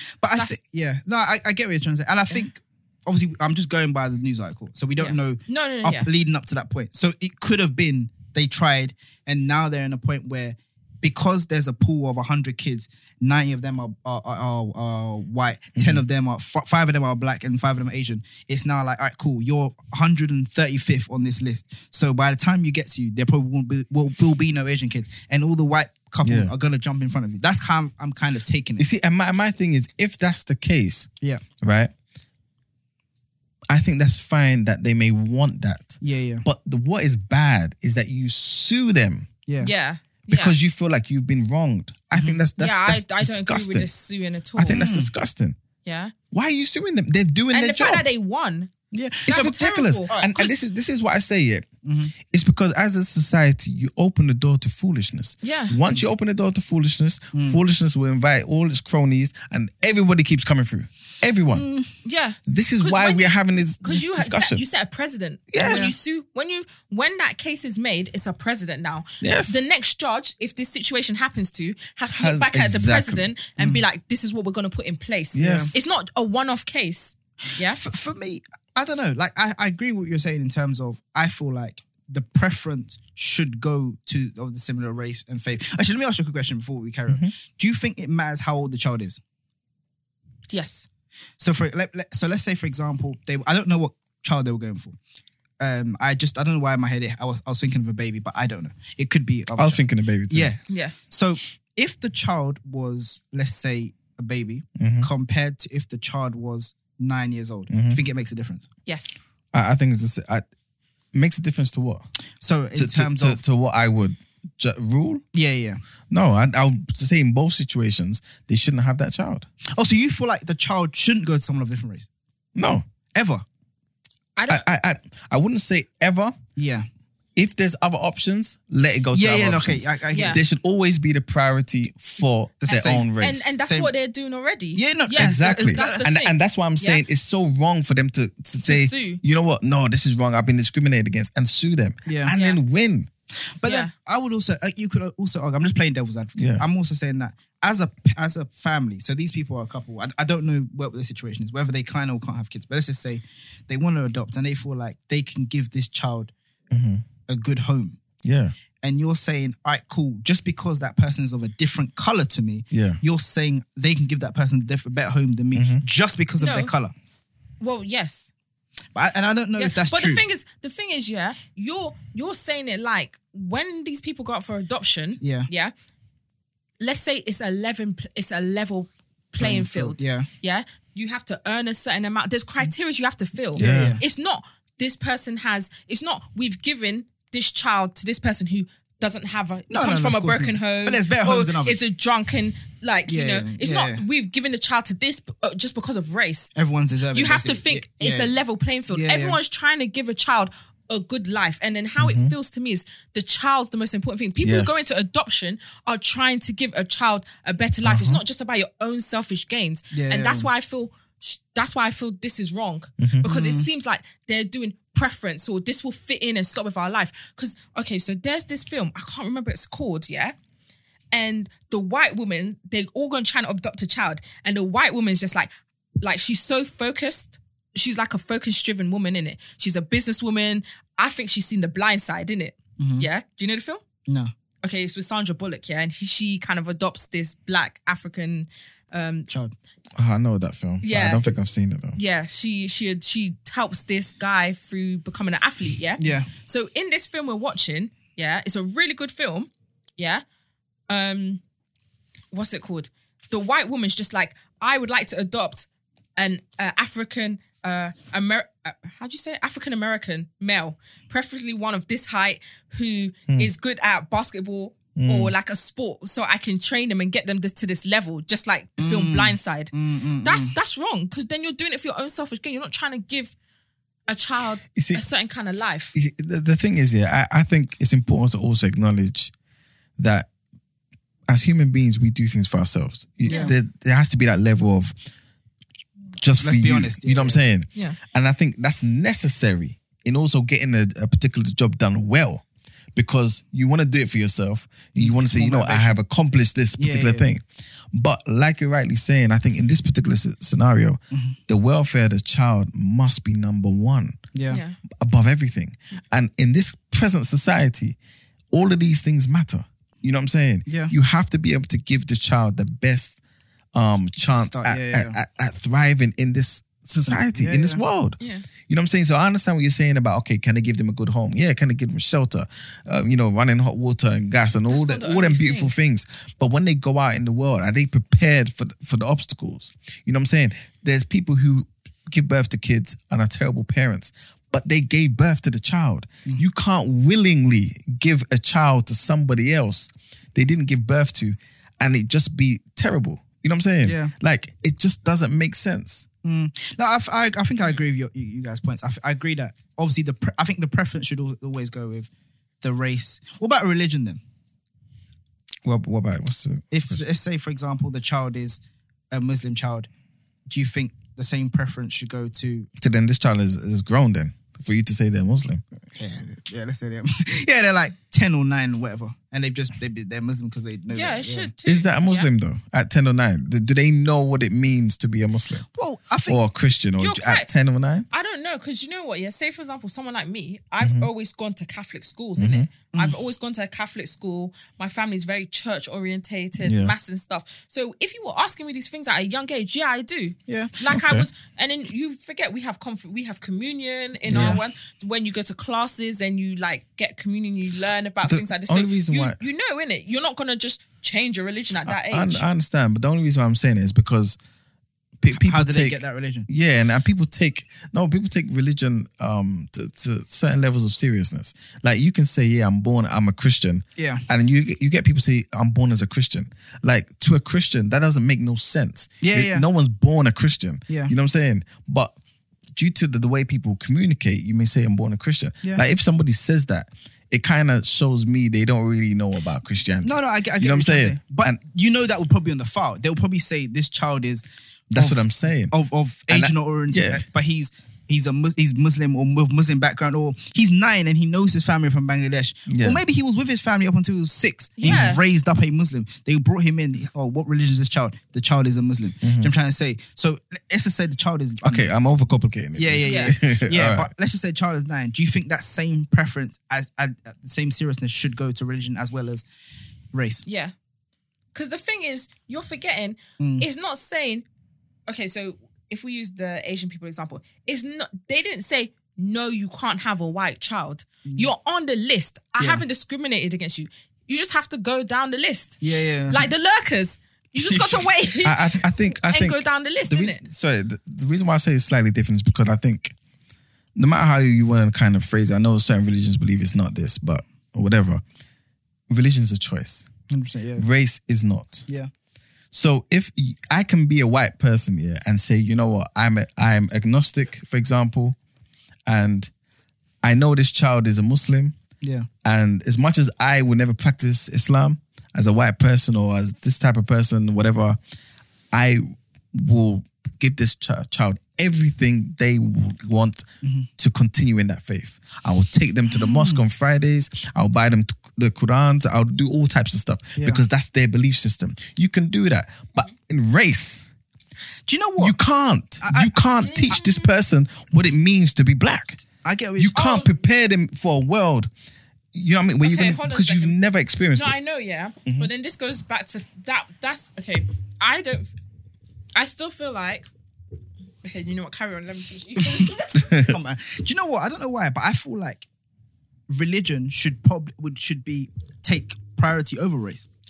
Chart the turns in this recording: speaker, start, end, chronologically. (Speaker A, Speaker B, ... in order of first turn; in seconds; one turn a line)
Speaker A: 0.2-28.9
Speaker B: 5.0-6.1
Speaker C: 15.8-16.0
Speaker C: 26.2-26.5
Speaker C: 28.8-31.1
Speaker C: 31.6-31.9
Speaker C: 33.7-39.3
Speaker A: 36.0-36.5
Speaker A: 39.5-39.7
Speaker B: 39.6-40.5
Speaker C: 40.3-43.9
Speaker A: 42.1-42.4
Speaker B: 42.6-44.8
Speaker C: 44.6-45.6
Speaker A: 44.8-45.1
Speaker B: 45.8-46.1
Speaker C: 46.3-48.0
Speaker B: 47.5-48.7
Speaker A: 48.9-49.6
Speaker B: 49.3-50.5
Speaker C: 49.3-51.7
Speaker A: 51.8-52.1
Speaker C: 52.3-61.7
Speaker B: 55.4-55.8
Speaker A: 57.3-57.6
Speaker A: 61.5-61.9
Speaker B: 62.0-77.8
Speaker C: 62.5-64.6
Speaker C: 65.5-65.9
Speaker A: 65.6-65.9
Speaker C: 69.2-69.6
Speaker C: 72.1-73.3
Speaker A: 73.6-73.8
Speaker C: 75.3-75.8
Speaker A: 75.4-75.8
Speaker A: 77.6-89.2
Speaker C: 87.1-87.3
Speaker B: 90.5-90.9
Speaker A: 91.4-95.0
Speaker A: 95.6-108.7
Speaker C: 99.6-100.5
Speaker B: 100.7-101.0
Speaker C: 104.8-105.1
Speaker C: 107.7-108.0
Speaker B: 108.9-109.2
Speaker C: 109.5-110.4
Speaker C: 111.1-112.1
Speaker A: 112.4-113.4
Speaker C: 112.8-115.2
Speaker A: 115.3-115.8
Speaker C: 116.1-119.5
Speaker A: 119.7-122.1
Speaker C: 122.6-122.8
Speaker A: 123.2-123.5
Speaker B: 124.4-124.7
Speaker C: 124.5-126.4
Speaker A: 126.6-126.9
Speaker C: 127.4-133.5
Speaker A: 129.1-130.4
Speaker B: 130.1-130.4
Speaker A: 132.6-133.9
Speaker B: 132.7-137.0
Speaker A: 134.8-136.1
Speaker C: 135.2-143.1
Speaker B: 138.6-139.2
Speaker A: 142.1-142.3
Speaker B: 142.3-142.6
Speaker A: 143.6-156.3
Speaker B: 143.7-143.9
Speaker C: 146.4-146.7
Speaker C: 156.7-157.0
Speaker A: 157.3-158.0
Speaker C: 158.2-158.5
Speaker A: 158.8-166.9
Speaker C: 162.7-163.0
Speaker C: 165.5-165.8
Speaker B: 166.4-166.7
Speaker B: 167.6-168.3
Speaker A: 168.9-170.2
Speaker B: 169.6-175.7
Speaker A: 175.2-175.5
Speaker B: 176.8-196.5
Speaker A: 179.4-180.3
Speaker C: 183.6-184.0
Speaker A: 183.6-184.0
Speaker A: 189.7-191.8
Speaker A: 193.1-194.0
Speaker A: 196.6-198.3
Speaker B: 197.1-220.3
Speaker A: 198.9-199.4
Speaker C: 202.0-202.3
Speaker C: 204.4-205.0
Speaker C: 207.8-208.2
Speaker A: 209.9-210.5
Speaker C: 213.0-213.3
Speaker A: 213.2-213.7
Speaker B: 221.1-225.5
Speaker B: 226.0-233.8
Speaker A: 232.8-233.1
Speaker B: 234.6-239.3
Speaker A: 239.3-239.5
Speaker C: 240.0-242.0
Speaker B: 240.8-241.3
Speaker B: 242.0-250.2
Speaker A: 246.0-246.3
Speaker B: 250.9-251.4
Speaker B: 252.3-273.4
Speaker C: 265.0-265.3
Speaker A: 268.8-270.6
Speaker B: 274.1-275.9
Speaker C: 274.8-275.0
Speaker C: 275.9-279.3
Speaker C: 280.0-280.3
Speaker C: 281.3-284.9
Speaker B: 283.3-283.6
Speaker A: 283.3-283.6
Speaker C: 286.2-292.4
Speaker A: 286.4-287.4
Speaker C: 292.9-304.2
Speaker A: 295.0-296.0
Speaker A: 296.8-297.3
Speaker A: 301.1-301.4
Speaker A: 304.4-304.6
Speaker B: 304.5-304.8
Speaker C: 304.9-308.0
Speaker C: 308.5-313.2
Speaker A: 310.7-310.9
Speaker C: 313.7-346.1
Speaker A: 314.4-315.2
Speaker A: 317.1-317.8
Speaker B: 318.2-318.5
Speaker B: 324.7-325.7
Speaker A: 343.8-344.1
Speaker A: 346.2-352.1
Speaker A: 352.6-354.2
Speaker C: 355.6-357.0
Speaker A: 356.7-359.9
Speaker A: 360.5-362.7
Speaker C: 362.8-365.6
Speaker A: 365.9-371.5
Speaker B: 370.9-372.3
Speaker C: 371.6-375.7
Speaker A: 375.7-376.4
Speaker C: 376.3-378.1
Speaker B: 377.0-377.5
Speaker B: 378.1-402.4
Speaker C: 380.8-381.1
Speaker C: 382.4-382.7
Speaker C: 386.6-386.9
Speaker A: 390.5-390.8
Speaker C: 390.9-391.3
Speaker C: 394.3-394.6
Speaker A: 394.3-394.6
Speaker C: 398.3-399.4
Speaker C: 401.9-404.4
Speaker C: 405.2-422.2
Speaker A: 405.3-406.5
Speaker A: 414.0-414.2
Speaker A: 419.2-419.6
Speaker C: 422.8-431.6
Speaker A: 430.0-451.9
Speaker C: 434.9-435.7
Speaker C: 436.3-437.2
Speaker C: 442.7-443.0
Speaker B: 444.8-445.2
Speaker C: 444.8-445.1
Speaker C: 449.2-449.5
Speaker C: 451.6-454.1
Speaker A: 452.8-459.4
Speaker B: 453.0-453.4
Speaker A: 460.1-460.4
Speaker B: 460.5-460.7
Speaker B: 461.5-464.5
Speaker A: 463.4-463.7
Speaker B: 465.1-480.4
Speaker A: 472.6-472.8
Speaker A: 475.8-476.5
Speaker C: 478.4-483.1
Speaker C: 484.0-488.2
Speaker C: 489.1-490.1
Speaker A: 490.3-490.9
Speaker C: 490.8-491.9
Speaker C: 492.7-498.4
Speaker C: 499.1-499.5
Speaker C: 500.2-501.8
Speaker A: 502.0-502.3
Speaker C: 502.4-508.0
Speaker C: 508.7-513.5
Speaker A: 513.6-513.9
Speaker C: 514.0-524.1
Speaker A: 516.1-516.6
Speaker A: 520.4-520.6
Speaker A: 524.9-525.4
Speaker C: 525.2-529.2
Speaker A: 526.0-526.4
Speaker B: 526.6-527.3
Speaker A: 529.4-530.0
Speaker C: 529.8-531.7
Speaker B: 529.9-530.3
Speaker C: 532.3-534.5
Speaker B: 532.8-533.8
Speaker B: 534.4-538.5
Speaker B: 539.4-540.3
Speaker B: 541.2-543.3
Speaker C: 543.1-543.6
Speaker A: 543.4-545.7
Speaker A: 546.5-550.3